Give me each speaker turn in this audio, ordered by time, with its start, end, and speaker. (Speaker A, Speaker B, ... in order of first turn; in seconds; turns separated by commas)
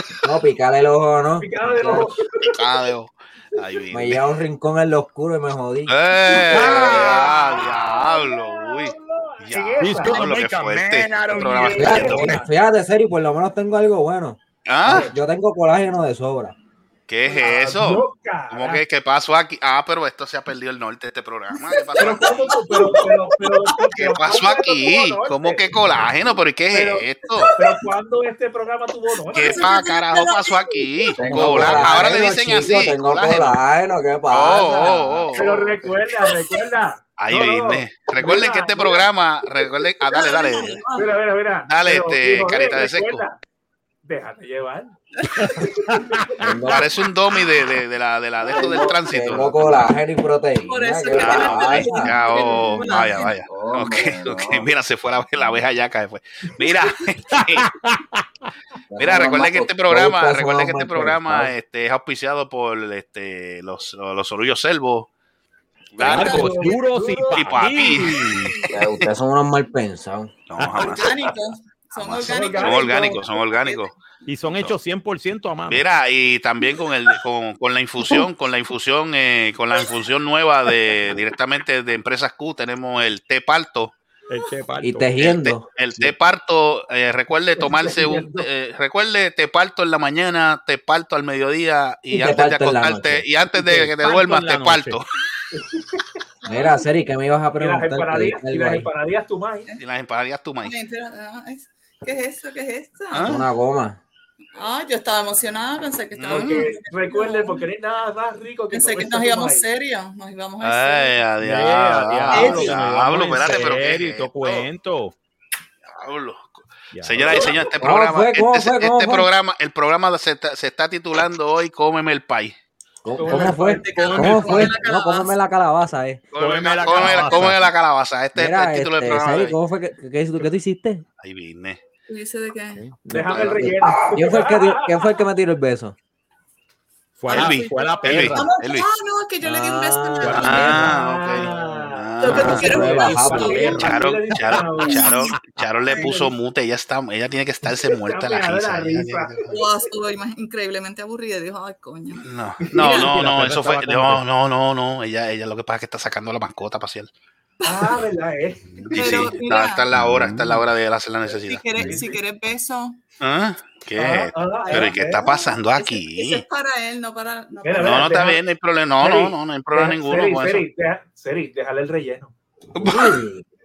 Speaker A: 0.2-2.1, Speaker B: 1.4-2.2, Speaker C: 2.5-4.2, Speaker A: 3.9-6.0, Speaker C: 5.9-12.3, Speaker B: 6.5-10.2, Speaker D: 6.5-7.2, Speaker D: 9.8-12.4, Speaker B: 11.4-12.5, Speaker A: 11.8-16.6, Speaker C: 14.7-15.1, Speaker B: 14.9-15.1, Speaker C: 17.1-22.6, Speaker B: 17.3-18.8, Speaker E: 21.9-23.7, Speaker B: 22.0-26.1, Speaker C: 23.9-27.5, Speaker B: 26.7-29.7, Speaker E: 27.5-27.8, Speaker E: 29.3-31.6, Speaker C: 29.3-33.6, Speaker A: 31.2-35.3, Speaker C: 34.3-35.9, Speaker B: 35.3-39.1, Speaker C: 37.2-40.8, Speaker E: 40.1-41.1, Speaker B: 41.0-43.4, Speaker C: 41.7-43.2, Speaker B: 44.0-45.0, Speaker D: 45.4-46.2, Speaker A: 46.4-46.8, Speaker C: 46.7-49.9, Speaker B: 48.5-49.0, Speaker E: 48.5-48.9, Speaker A: 49.1-52.1, Speaker E: 50.6-53.4, Speaker C: 51.2-57.7, Speaker A: 53.5-54.7, Speaker D: 57.3-58.2, Speaker A: 58.9-61.5, Speaker C: 59.0-65.1, Speaker C: 66.0-66.7, Speaker D: 66.0-68.5, Speaker B: 66.0-67.8, Speaker C: 67.3-68.7, Speaker A: 68.7-70.3, Speaker C: 70.5-71.1, Speaker B: 70.8-71.2, Speaker E: 70.8-73.8, Speaker C: 72.0-74.0, Speaker B: 72.2-73.2, Speaker D: 74.3-75.8, Speaker C: 75.7-83.9, Speaker D: 84.3-85.1, Speaker A: 84.8-86.1, Speaker C: 85.2-95.0, Speaker B: 87.6-88.5, Speaker A: 92.1-93.3, Speaker D: 93.8-95.0, Speaker B: 95.5-95.8, Speaker E: 96.4-96.8, Speaker A: 96.5-98.9, Speaker B: 97.6-99.8, Speaker C: 99.8-100.8, Speaker E: 100.6-103.4, Speaker C: 103.1-103.5, Speaker A: 103.3-104.0, Speaker E: 104.5-107.7, Speaker C: 106.2-106.6, Speaker B: 106.3-109.7, Speaker E: 108.7-111.2, Speaker C: 110.6-114.7, Speaker D: 111.4-115.1, Speaker E: 112.3-112.8, Speaker C: 115.9-122.5, Speaker D: 116.9-117.4, Speaker A: 117.8-119.3, Speaker A: 123.0-126.2, Speaker B: 123.2-124.4, Speaker E: 123.3-125.4, Speaker D: 123.9-124.7, Speaker C: 126.3-129.6, Speaker D: 126.4-127.6, Speaker A: 128.3-131.0, Speaker C: 131.2-131.8, Speaker E: 132.1-132.8, Speaker A: 133.1-136.0, Speaker B: 133.1-135.1, Speaker C: 133.3-133.9, Speaker D: 137.2-138.5, Speaker C: 137.3-138.9, Speaker E: 137.3-141.0, Speaker B: 137.7-138.4, Speaker A: 139.4-140.9, Speaker D: 140.2-141.0, Speaker C: 140.4-142.9, Speaker B: 141.2-145.2, Speaker E: 142.2-143.9, Speaker A: 142.3-143.7, Speaker D: 143.0-145.7, Speaker C: 143.7-149.5, Speaker B: 145.9-146.3, Speaker B: 147.8-149.7, Speaker E: 149.5-152.2, Speaker C: 152.2-157.1, Speaker B: 152.6-153.1, Speaker D: 152.9-154.2, Speaker E: 157.6-158.0, Speaker B: 157.6-159.2, Speaker C: 158.9-161.7, Speaker E: 158.9-159.8, Speaker D: 159.9-160.6, Speaker E: 161.4-163.0, Speaker D: 161.8-162.0, Speaker B: 161.8-162.2, Speaker C: 163.2-166.4, Speaker B: 164.0-165.3, Speaker E: 164.6-168.3, Speaker B: 167.6-168.4, Speaker C: 167.8-170.7, Speaker B: 169.0-172.3, Speaker C: 172.8-173.3, Speaker A: 172.8-173.4